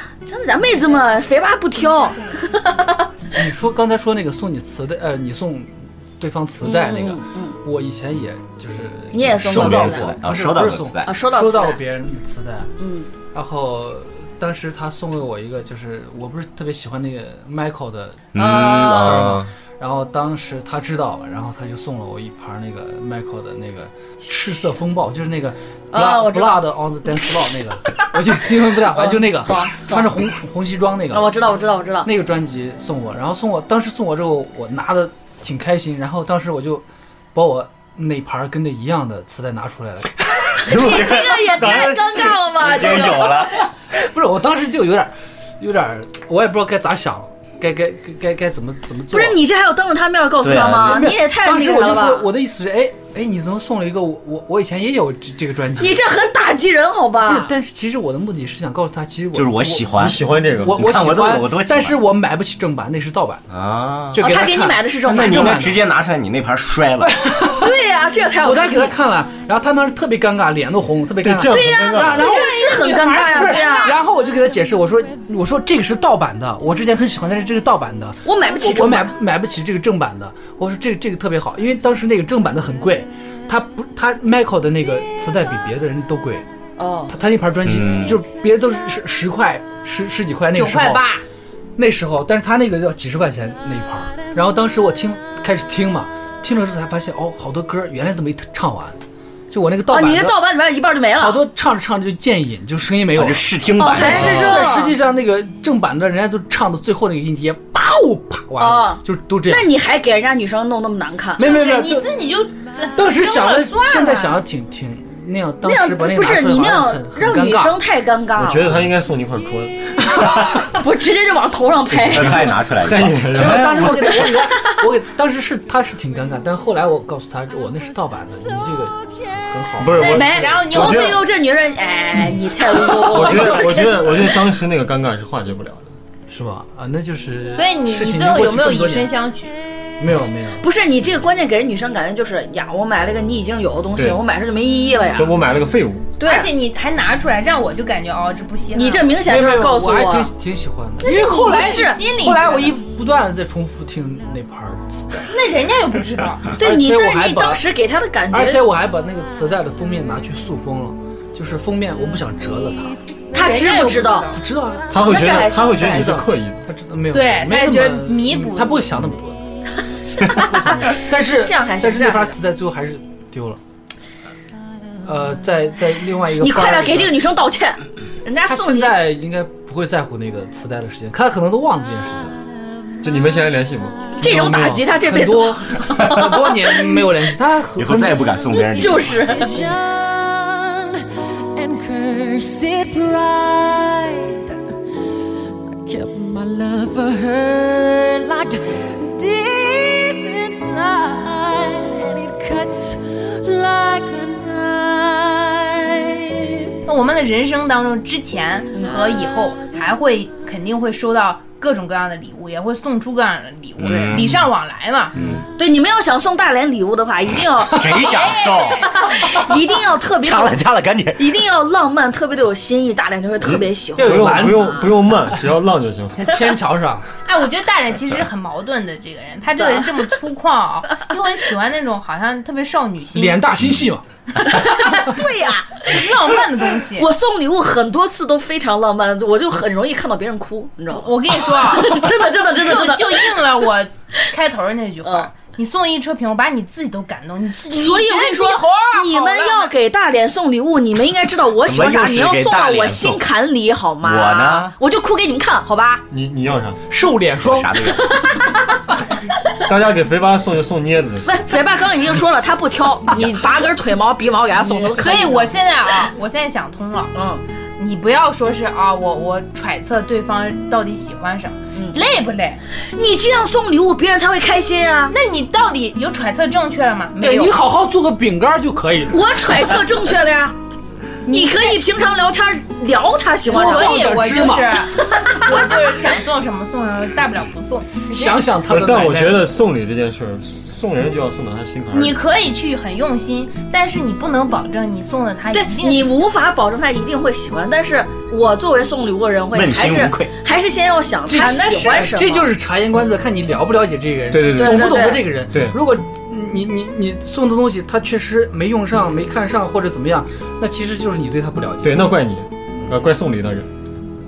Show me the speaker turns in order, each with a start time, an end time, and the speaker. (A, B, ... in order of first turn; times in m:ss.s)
0:00.3-0:03.1 A
0:03.4-0:12.7 B
0:06.6-0:07.6 A
0:09.1-0:10.2 A
0:09.5-0:11.1 C
0:09.6-0:10.0 D
0:11.0-0:11.8 A
0:12.8-0:13.1 A
0:13.3-0:31.3 B
0:18.3-0:19.5 C
0:18.4-0:19.4 A
0:25.9-0:26.7 A
0:28.9-0:30.1 A
0:31.1-0:32.1 A
0:32.0-0:40.2 B
0:40.6-0:43.5 A
0:40.7-0:42.0 C
0:41.6-0:42.0 D
0:42.6-0:43.5 C
0:43.9-0:49.4 B
0:49.1-0:52.3 A
0:50.4-0:51.0 C
0:50.8-0:56.1 B
0:55.8-0:57.5 A
0:57.2-1:00.0 B
0:59.3-1:00.2 C
1:00.0-1:00.8 D
1:00.6-1:03.4 B
1:00.7-1:02.0 C
1:03.5-1:04.2 C
1:04.1-1:05.9 B
1:04.2-1:05.6 A
1:05.1-1:07.2 C
1:07.0-1:07.7 B
1:07.5-1:08.9 A
1:08.4-1:26.4 B
1:11.2-1:12.4 D
1:11.5-1:14.0 A
1:12.2-1:14.0 E
1:18.2-1:19.2 A
1:26.8-1:27.2 A
1:27.1-1:31.1 B
1:27.6-1:28.2 C
1:30.5-1:31.2 E
1:31.8-1:39.0 B
1:39.5-1:40.4 B
1:39.9-1:41.4 A
1:41.2-1:49.7 B
1:43.2-1:44.5 C
1:43.8-1:45.0 A
1:48.6-1:51.6 A
1:51.4-1:52.1 B
1:51.4-1:54.4 E
1:53.0-1:57.8 B
1:55.6-1:58.7 A
1:58.4-2:00.4 D
2:00.4-2:02.5 A
2:02.0-2:04.2 D
2:02.1-2:03.6 C
2:03.3-2:10.6 B
2:04.3-2:04.8 A
2:09.8-2:11.2 D
2:10.0-2:14.2 A
2:10.0-2:11.2 E
2:12.9-2:13.4 B
2:13.0-2:15.9 D
2:16.3-2:19.1 B
2:17.6-2:19.5 E
2:20.0-2:20.6 B
2:20.6-2:25.4 A
2:25.2-2:26.1 D
2:26.2-2:26.5 A
2:26.2-2:29.2 E
2:28.7-2:30.3 A
2:29.2-2:35.3 B
2:31.0-2:32.0 A
2:31.0-2:32.8 E
2:35.3-2:36.6 E
2:36.6-2:37.6 B
2:36.6-2:38.6 A
2:38.3-2:43.0 B
2:43.3-2:44.4 E
2:43.3-2:44.3 A
2:44.4-2:44.9 B
2:44.9-2:46.6 D
2:45.0-2:46.2 A
2:45.8-2:49.4 B
2:47.1-2:48.9 E
2:50.3-2:53.6 B
2:50.3-2:52.4 A
2:55.0-2:57.2 B
2:56.4-2:59.0 A
2:58.4-3:02.4 B
3:03.0-3:04.1 D
3:04.2-3:08.3 B
3:04.2-3:06.5 A
3:07.8-3:09.2 C
3:08.7-3:09.6 A
3:08.8-3:14.7 F
3:15.7-3:26.9 F
3:26.9-3:35.2 E
3:33.8-3:34.4 C
3:35.2-3:35.4 B
3:35.6-3:40.6 A
3:37.7-3:39.3 C
3:38.4-3:38.8 E
3:40.2-3:41.2 C
3:41.2-3:44.9 A
3:44.0-3:45.4 B
3:44.0-3:46.2 D
3:46.2-3:47.1 B
3:47.2-3:53.5 E
3:49.6-3:49.9 A
3:53.1-3:55.0 B
3:54.4-3:56.1 A
3:54.9-3:57.1 E
3:57.0-4:03.4 A
4:00.9-4:09.7 E
4:05.0-4:05.3 A
4:07.6-4:16.0 A
4:11.6-4:13.2 C
4:14.0-4:14.7 C
4:16.1-4:16.8 D
4:16.9-4:17.8 B
4:17.4-4:18.2 C
4:17.9-4:18.8 A
4:19.6-4:21.4 D
4:21.2-4:25.5 A
4:24.7-4:25.3 B
4:25.0-4:27.1 E
4:27.1-4:27.4 A
4:27.8-4:32.6 E
4:32.8-4:35.2 A
4:35.1-4:37.6 E
4:37.2-4:39.8 B
4:39.1-4:40.6 A
4:41.3-4:41.8 E
4:41.3-4:44.2 A
4:43.5-4:44.8 B
4:43.5-4:48.1 E
4:45.0-4:45.4 A
4:48.1-4:49.5 B
4:48.7-4:52.2 D
4:51.9-4:56.1 E
4:55.5-5:02.5 A
4:59.5-5:00.3 C
5:01.3-5:12.1 B
5:04.3-5:05.0 D
5:04.5-5:05.3 A
5:05.5-5:05.8 D
5:11.8-5:13.7 D